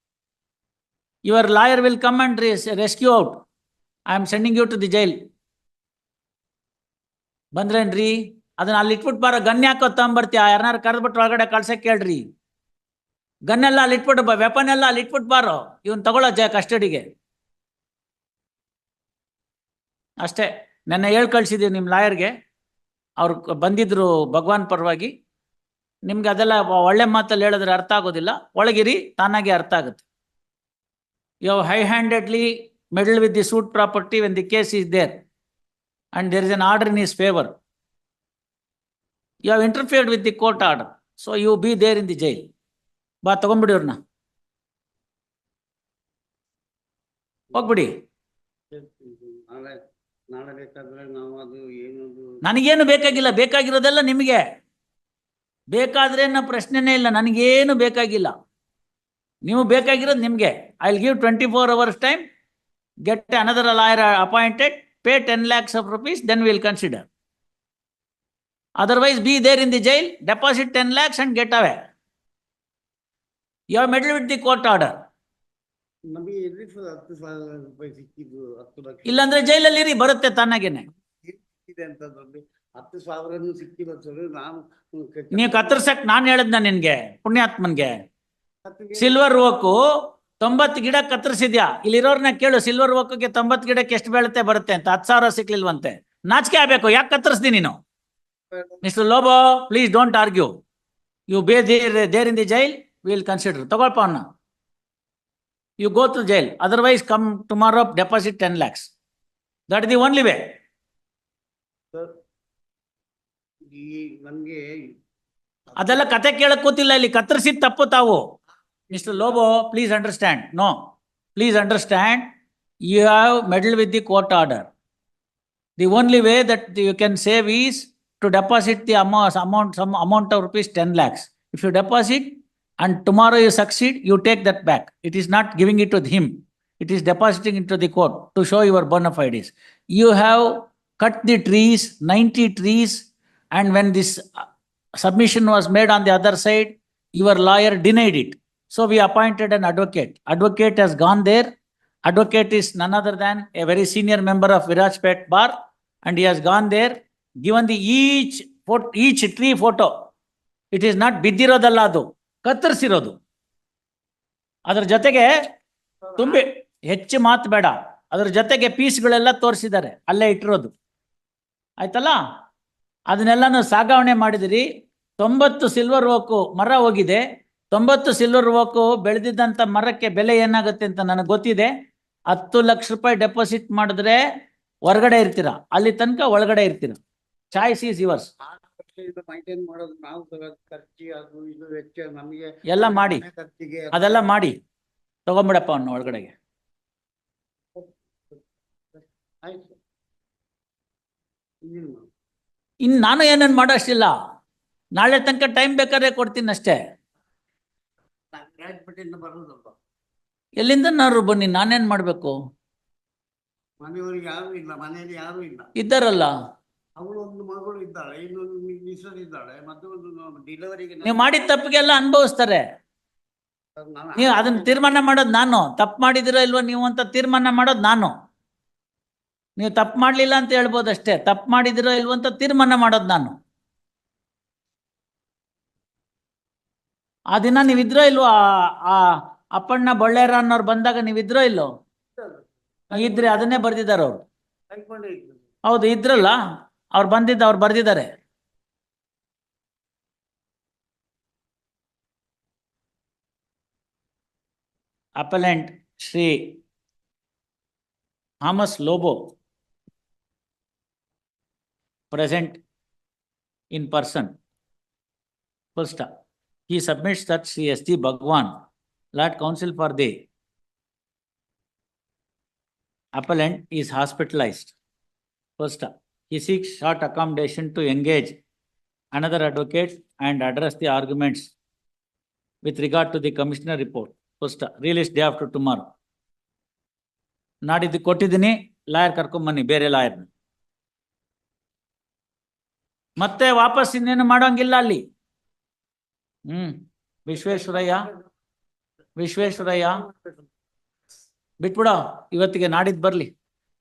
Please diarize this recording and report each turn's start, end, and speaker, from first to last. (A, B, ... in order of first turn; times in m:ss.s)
0:01.2-0:03.4 A
0:04.1-0:05.2 A
0:07.5-0:12.2 A
0:13.5-0:17.0 A
0:20.2-0:22.3 A
0:23.2-0:25.1 A
0:26.0-0:30.0 A
0:31.4-0:35.2 A
0:36.1-0:37.5 A
0:39.4-0:42.5 A
0:43.2-0:44.0 A
0:47.5-0:47.9 A
0:48.7-0:49.7 B
0:50.3-0:52.3 B
0:52.4-0:54.4 A
0:55.7-0:58.3 A
0:59.4-1:02.2 A
1:03.0-1:07.1 A
1:08.8-1:11.8 A
1:13.7-1:14.9 A
1:16.1-1:19.2 B
1:19.0-1:20.9 A
1:21.2-1:25.9 B
1:25.3-1:28.0 A
1:28.6-1:29.2 B
1:29.0-1:37.8 A
1:38.5-1:38.8 B
1:38.8-1:40.5 A
1:41.3-1:44.2 A
1:45.8-1:48.9 A
1:49.7-1:50.4 A
1:53.7-1:54.7 B
1:55.7-1:56.1 B
1:55.8-1:58.2 A
1:58.9-1:59.4 B
1:58.9-2:00.7 A
2:01.4-2:02.3 A
2:02.8-2:04.7 A
2:05.8-2:24.4 A
2:25.0-2:31.5 A
2:32.0-2:35.5 A
2:36.0-2:39.9 A
2:40.7-2:43.2 A
2:44.7-2:45.3 A
2:46.0-2:46.4 B
2:46.2-2:50.7 A
2:51.8-2:52.2 A
2:53.1-2:54.6 A
2:55.2-3:01.7 A
3:02.3-3:04.2 A
3:04.8-3:07.0 A
3:07.5-3:08.3 A
3:08.4-3:14.2 B
3:12.7-3:13.2 A
3:13.9-3:14.6 A
3:15.2-3:16.3 A
3:17.8-3:18.4 B
3:19.4-3:19.8 B
3:21.6-3:22.1 B
3:22.8-3:24.1 A
3:25.0-3:26.8 A
3:28.3-3:29.7 B
3:30.6-3:32.3 A
3:33.8-3:35.7 B
3:35.8-3:36.3 A
3:37.0-3:41.2 B
3:41.0-3:42.6 A
3:43.8-3:44.8 B
3:44.2-3:48.1 A
3:49.6-3:53.3 A
3:57.3-4:01.7 A
4:02.2-4:03.5 B
4:02.9-4:04.2 A
4:04.7-4:05.4 B
4:05.6-4:06.4 A
4:06.9-4:08.1 A
4:15.2-4:16.6 A
4:18.4-4:19.2 A
4:22.1-4:22.6 A
4:23.7-4:24.3 A
4:25.8-4:26.1 A
4:26.7-4:28.5 A
4:29.2-4:30.1 A
4:33.2-4:34.7 A
4:35.6-4:38.4 A
4:39.1-4:41.5 A
4:42.6-4:45.9 A
4:47.6-4:50.3 A
4:53.2-4:55.0 A
4:56.5-4:58.1 A
4:57.3-4:58.1 B
4:59.2-5:00.0 A
4:59.4-5:00.4 B
5:01.6-5:03.3 A